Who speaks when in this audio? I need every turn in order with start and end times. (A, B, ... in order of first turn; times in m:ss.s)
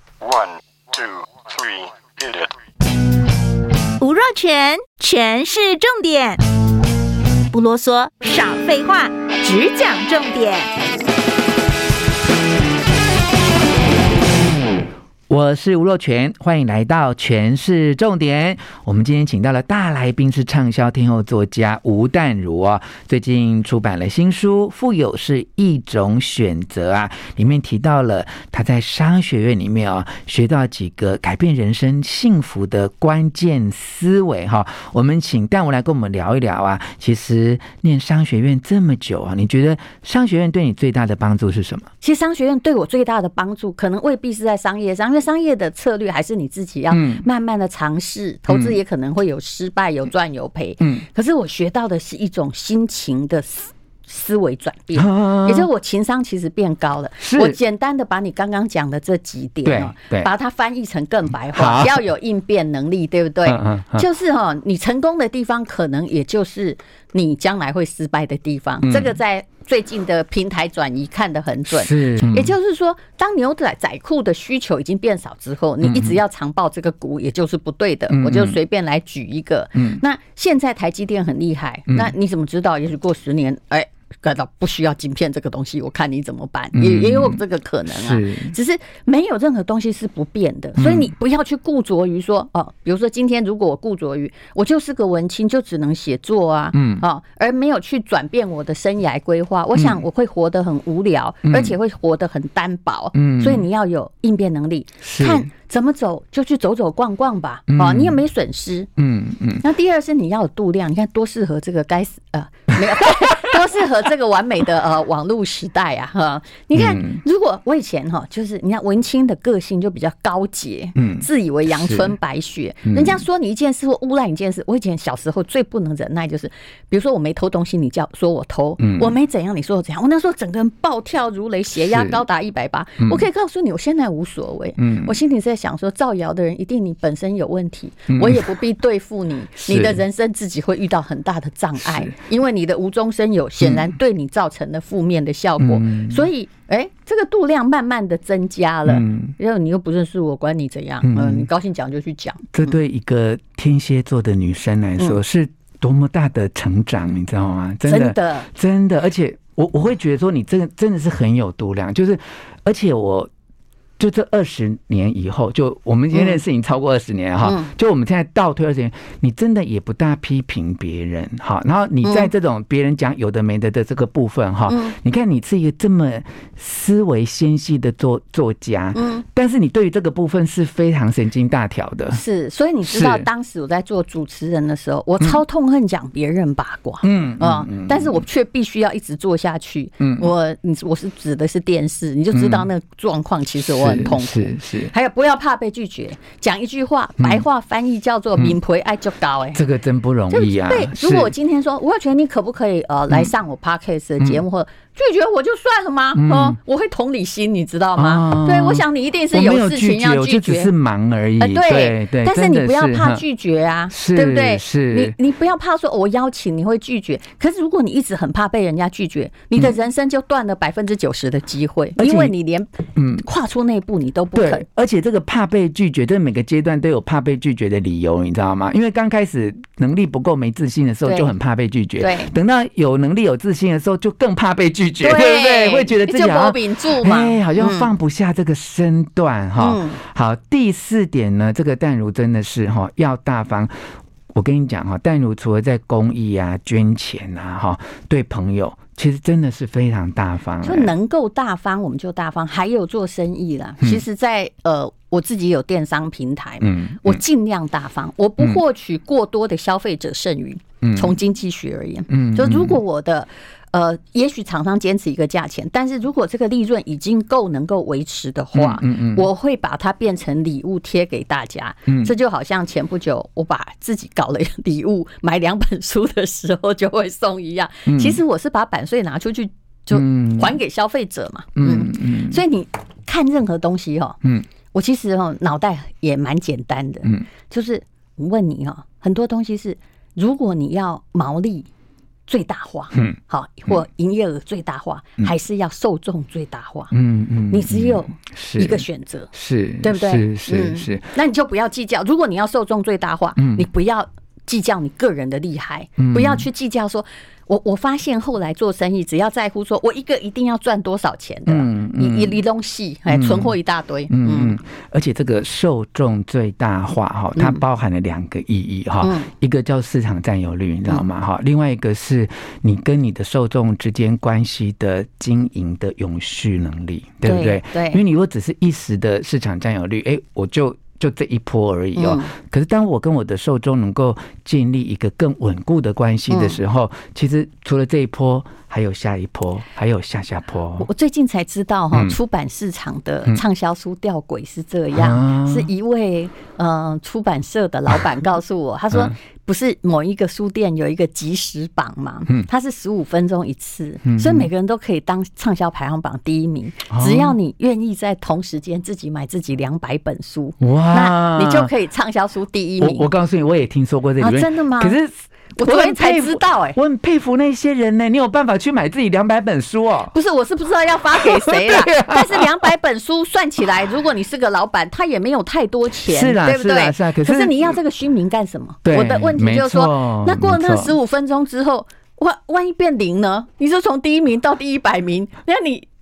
0:00.2-0:02.5 A
0:04.0-0:06.4 B
0:07.5-0:10.7 B
0:15.3-0:41.9 C
0:42.0-1:48.9 D
0:46.9-0:47.3 C
0:48.5-0:48.8 C
0:55.0-0:55.7 C
0:57.2-0:57.6 C
0:59.6-1:00.3 C
1:01.5-1:02.0 C
1:03.5-1:04.0 C
1:08.8-1:09.2 C
1:11.7-1:12.6 C
1:15.8-1:16.2 C
1:18.1-1:18.6 C
1:19.8-1:20.0 C
1:26.8-1:28.6 C
1:30.8-1:31.1 C
1:36.7-1:37.0 C
1:39.8-1:40.0 C
1:41.4-1:41.8 C
1:43.2-1:43.6 C
1:45.0-1:45.5 C
1:47.7-1:48.2 C
1:49.0-1:49.6 C
1:49.6-2:32.8 D
1:56.8-1:57.2 C
2:01.0-2:02.1 C
2:02.9-2:03.2 C
2:08.8-2:09.1 C
2:11.8-2:12.2 C
2:14.8-2:15.2 C
2:18.1-2:18.5 C
2:19.7-2:20.0 C
2:21.8-2:22.2 C
2:25.6-2:26.2 C
2:28.9-2:29.3 C
2:31.0-2:31.5 C
2:32.5-2:43.3 C
2:37.8-2:38.5 D
2:44.0-3:02.2 C
2:46.1-2:46.4 D
2:47.4-2:47.7 D
2:52.0-2:52.3 D
2:54.7-2:55.0 D
2:58.9-2:59.2 D
3:02.1-3:19.6 D
3:02.8-3:03.3 C
3:07.0-3:08.2 C
3:10.0-3:10.3 C
3:12.3-3:12.7 C
3:13.6-3:14.9 C
3:17.2-3:17.4 C
3:19.5-3:21.3 C
3:20.3-3:30.7 D
3:26.2-3:26.6 C
3:28.0-3:33.2 C
3:31.4-3:44.7 D
3:33.9-3:35.2 C
3:42.0-3:42.3 C
3:43.0-3:43.2 C
3:44.4-4:03.7 C
3:51.0-3:51.4 D
3:52.0-3:52.3 D
3:55.0-3:57.9 D
3:59.6-4:00.0 D
4:04.3-4:10.9 C
4:10.6-4:44.2 D
4:16.6-4:17.2 C
4:20.8-4:21.1 C
4:22.1-4:22.8 C
4:28.5-4:29.3 C
4:31.9-4:32.1 C
4:37.9-4:38.2 C
4:39.9-4:40.5 C
4:41.6-4:42.4 C
4:44.7-4:51.7 D
4:52.3-4:56.9 D
4:56.9-5:01.1 C
4:57.5-4:59.3 D
4:59.8-5:14.6 D
5:03.4-5:03.7 C
5:06.0-5:06.5 C
5:11.5-5:12.4 C
5:13.1-5:13.6 C
5:14.1-5:40.9 C
5:17.4-5:17.6 D
5:19.0-5:19.3 D
5:27.2-5:28.0 D
5:32.0-5:32.3 D
5:36.3-5:36.6 D
5:40.8-6:03.1 D
5:44.9-5:45.7 C
5:54.0-5:54.5 C
5:56.9-5:57.4 C
6:00.6-6:01.7 C
6:02.8-6:10.1 C
6:04.2-6:05.0 D
6:05.6-6:06.8 D
6:10.1-6:25.9 D
6:11.3-6:12.6 C
6:16.0-6:17.8 C
6:18.8-6:21.0 C